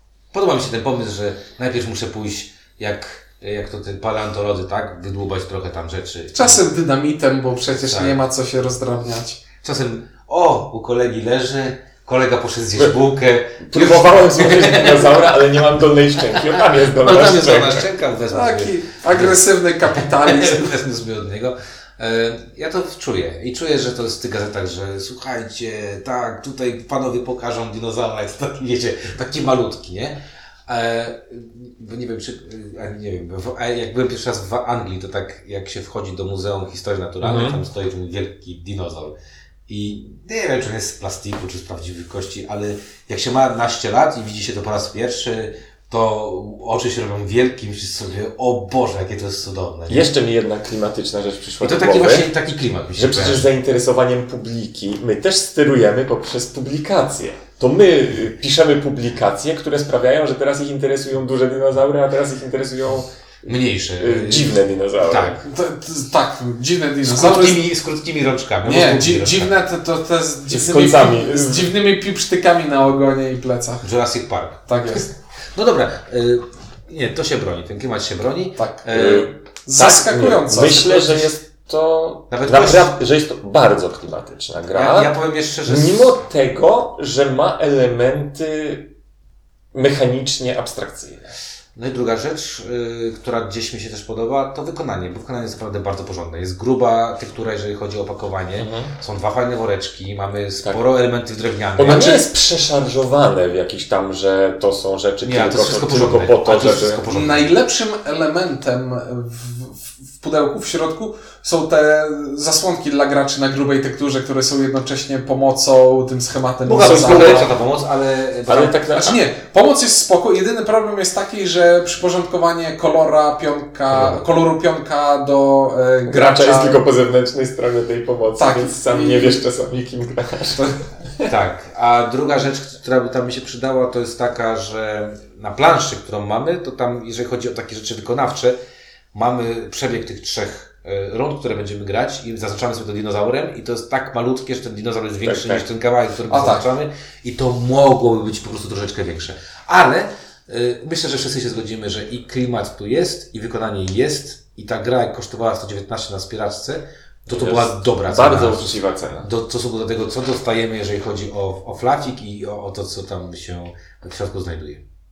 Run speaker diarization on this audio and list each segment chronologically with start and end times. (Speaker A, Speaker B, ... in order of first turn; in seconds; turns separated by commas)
Speaker A: 0.3-6.6, Speaker B: 6.3-9.4, Speaker A: 7.8-8.2, Speaker A: 9.6-15.3, Speaker C: 13.6-17.9, Speaker A: 16.3-39.1, Speaker B: 18.3-20.7, Speaker C: 37.2-37.6, Speaker A: 39.7-50.1, Speaker C: 49.9-52.3, Speaker A: 51.6-53.5, Speaker C: 52.9-65.4, Speaker A: 63.5-65.4, Speaker B: 65.4-67.6, Speaker A: 67.0-69.5, Speaker B: 68.6-73.8, Speaker C: 70.5-71.7, Speaker A: 73.8-79.3, Speaker B: 74.7-75.1, Speaker B: 78.6-78.8, Speaker C: 78.9-85.1, Speaker B: 79.7-81.3, Speaker A: 82.3-83.0, Speaker A: 84.7-86.2, Speaker C: 85.7-88.9, Speaker C: 89.7-91.3, Speaker A: 91.7-102.2, Speaker C: 98.6-98.9, Speaker C: 101.8-107.0, Speaker B: 101.9-102.2, Speaker A: 105.2-107.5, Speaker B: 107.1-117.5, Speaker A: 116.7-118.9, Speaker C: 116.7-117.5, Speaker C: 118.5-119.2, Speaker B: 118.9-126.8, Speaker A: 123.9-124.2, Speaker C: 126.1-131.3, Speaker B: 128.3-129.4, Speaker A: 131.2-138.6, Speaker A: 139.1-164.8, Speaker C: 145.2-145.6, Speaker B: 146.3-146.7, Speaker C: 157.3-159.3